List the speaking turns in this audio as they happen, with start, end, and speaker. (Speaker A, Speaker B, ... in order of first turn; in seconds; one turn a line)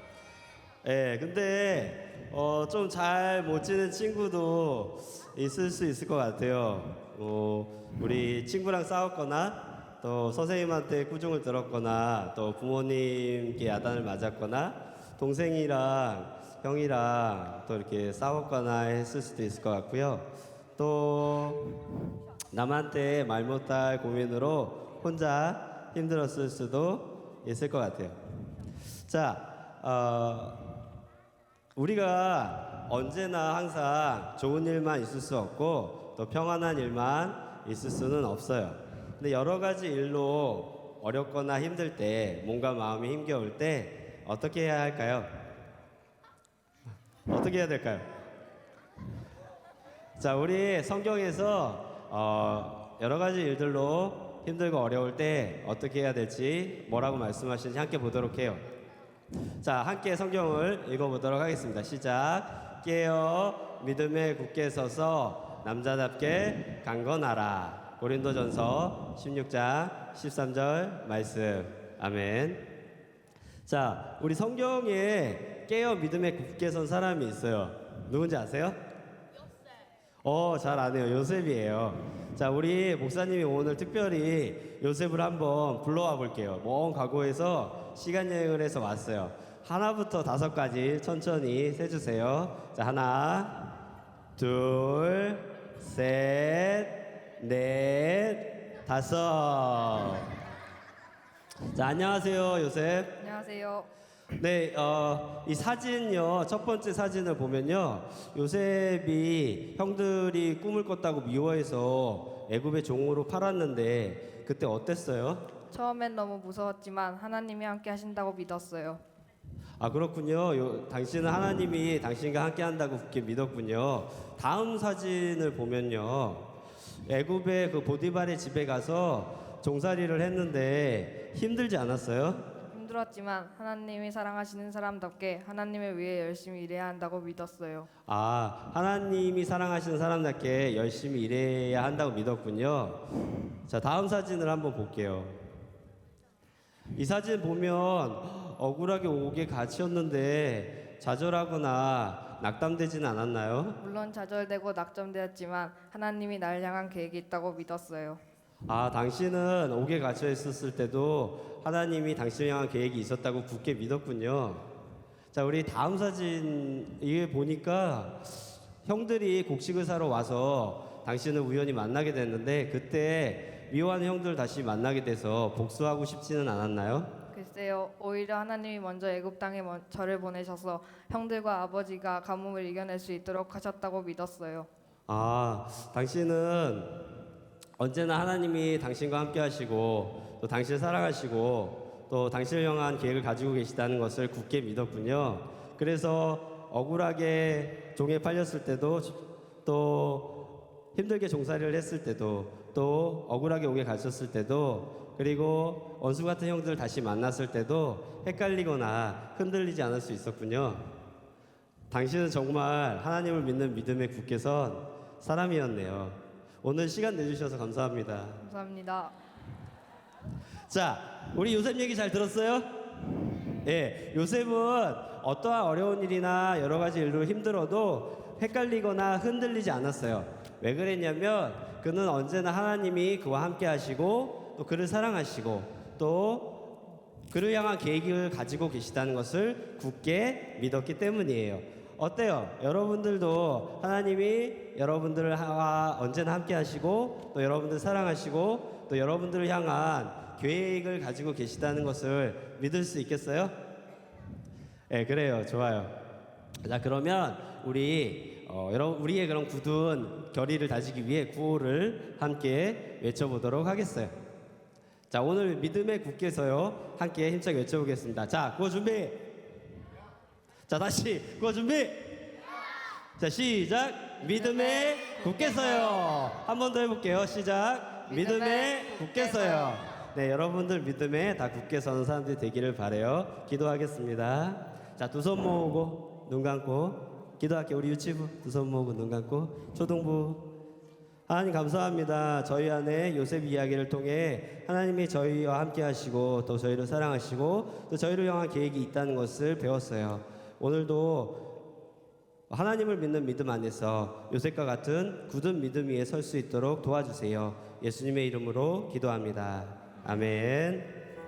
Speaker A: 0.8-21.8
Speaker A: 22.5-28.2
Speaker A: 29.1-30.6
Speaker A: 31.7-45.3
Speaker A: 47.3-48.0
Speaker A: 50.2-58.6
Speaker A: 59.6-72.6
Speaker A: 73.7-78.8
Speaker A: 80.2-93.6
Speaker A: 94.4-100.3
Speaker A: 101.7-103.1
Speaker B: 103.2-103.9
Speaker A: 104.4-115.4
Speaker B: 115.7-119.0
Speaker A: 119.8-126.5
Speaker A: 127.1-132.4
Speaker B: 132.7-137.9
Speaker A: 138.1-143.0
Speaker A: 143.7-145.4
Speaker A: 146.9-153.8
Speaker B: 153.8-158.2
Speaker A: 158.7-164.6
Speaker A: 165.3-168.2
Speaker A: 168.8-177.1
Speaker B: 177.3-184.7
Speaker A: 185.1-186.9
Speaker A: 187.8-200.4
Speaker A: 200.9-210.8
Speaker A: 211.9-218.4
Speaker B: 218.4-219.1
Speaker A: 220.7-222.7
Speaker A: 223.6-236.5
Speaker A: 237.3-253.5
Speaker A: 254.9-255.9
Speaker A: 256.6-264.1
Speaker A: 265.1-269.2
Speaker A: 270.7-272.2
Speaker A: 273.2-290.4
Speaker B: 274.4-276.0
Speaker B: 278.1-279.8
Speaker A: 291.3-301.4
Speaker A: 302.5-310.9